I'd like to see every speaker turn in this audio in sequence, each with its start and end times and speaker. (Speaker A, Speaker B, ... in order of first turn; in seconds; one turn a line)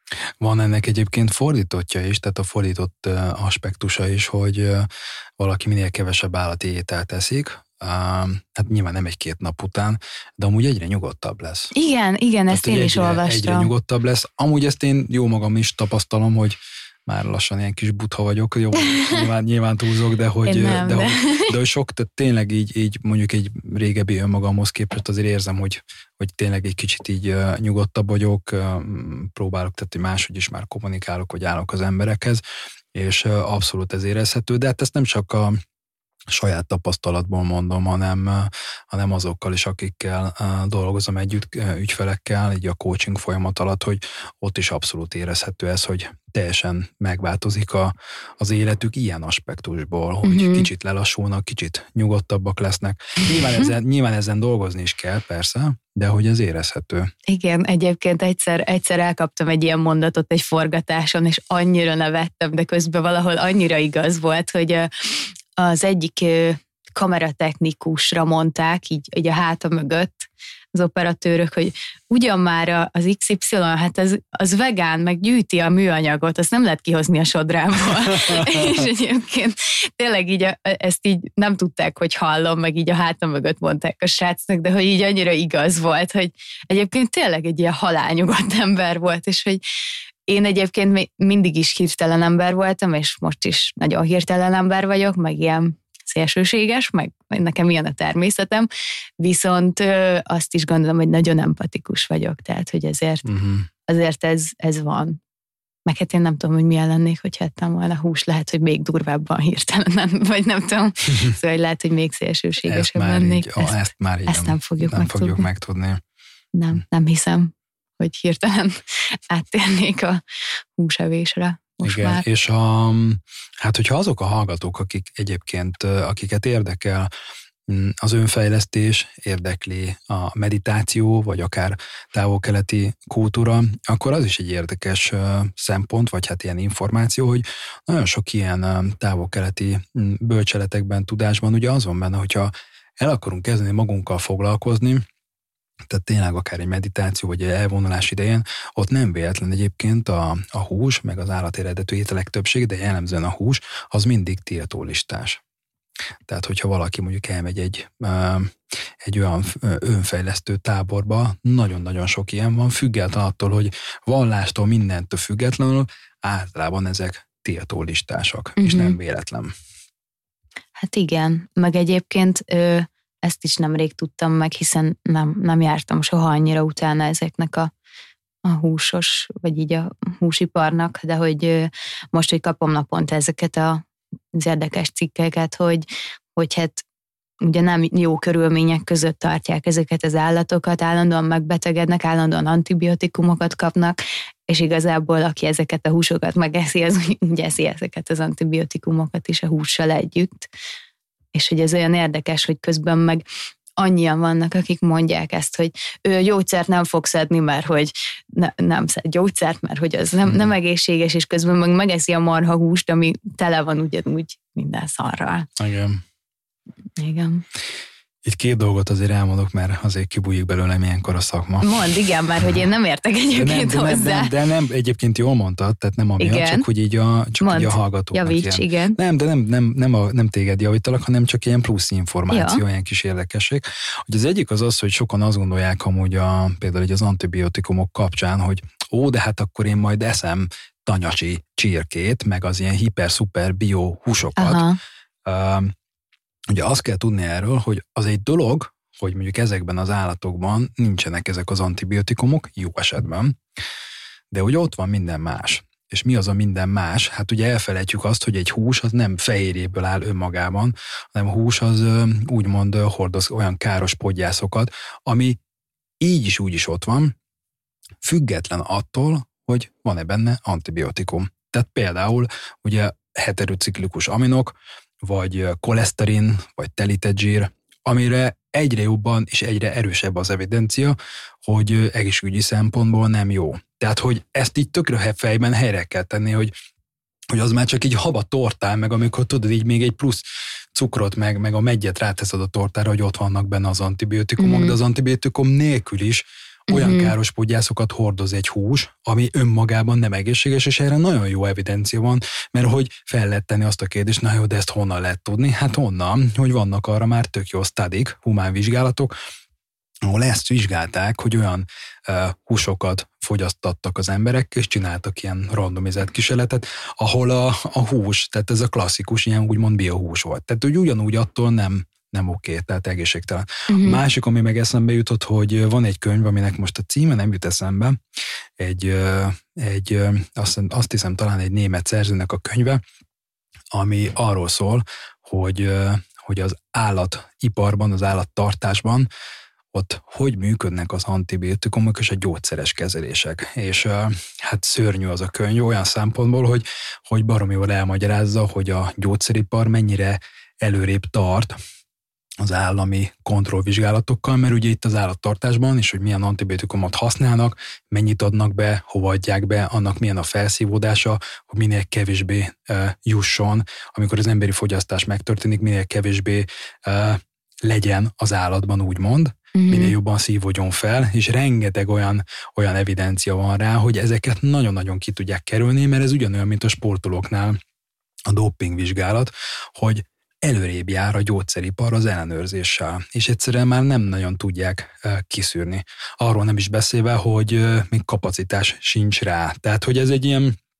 Speaker A: 0.4-4.9
Speaker A: 5.4-11.7
Speaker B: 11.7-13.7
Speaker A: 12.5-32.4
Speaker B: 18.8-19.2
Speaker B: 20.4-21.5
Speaker A: 32.9-35.6
Speaker A: 36.3-57.1
Speaker B: 50.2-50.7
Speaker B: 57.3-89.6
Speaker B: 90.3-98.7
Speaker B: 99.2-103.2
Speaker A: 103.2-103.7
Speaker B: 103.9-105.2
Speaker B: 105.8-115.5
Speaker A: 112.6-116.0
Speaker B: 116.5-120.2
Speaker B: 120.7-122.2
Speaker A: 121.8-127.1
Speaker A: 127.7-145.0
Speaker A: 145.9-155.4
Speaker A: 156.2-169.5
Speaker B: 168.6-168.9
Speaker B: 170.8-177.7
Speaker B: 178.4-183.8
Speaker B: 184.3-185.8
Speaker B: 186.3-186.8
Speaker B: 187.4-200.5
Speaker B: 201.3-203.2
Speaker B: 203.8-215.5
Speaker A: 215.6-216.0
Speaker B: 217.0-217.4
Speaker A: 218.2-221.7
Speaker B: 221.6-224.3
Speaker A: 223.3-244.6
Speaker B: 226.2-226.7
Speaker B: 227.4-229.0
Speaker B: 232.3-232.6
Speaker B: 244.4-244.8
Speaker A: 245.2-245.7
Speaker A: 246.5-253.4
Speaker A: 254.3-265.4
Speaker A: 266.0-267.1
Speaker A: 268.0-286.5
Speaker A: 287.3-309.1
Speaker B: 294.4-294.8
Speaker B: 296.7-297.1
Speaker A: 310.0-328.0
Speaker B: 323.7-324.0
Speaker A: 328.6-332.8
Speaker A: 333.7-339.1
Speaker A: 339.7-351.5
Speaker A: 352.4-377.6
Speaker B: 369.5-369.9
Speaker A: 378.3-390.6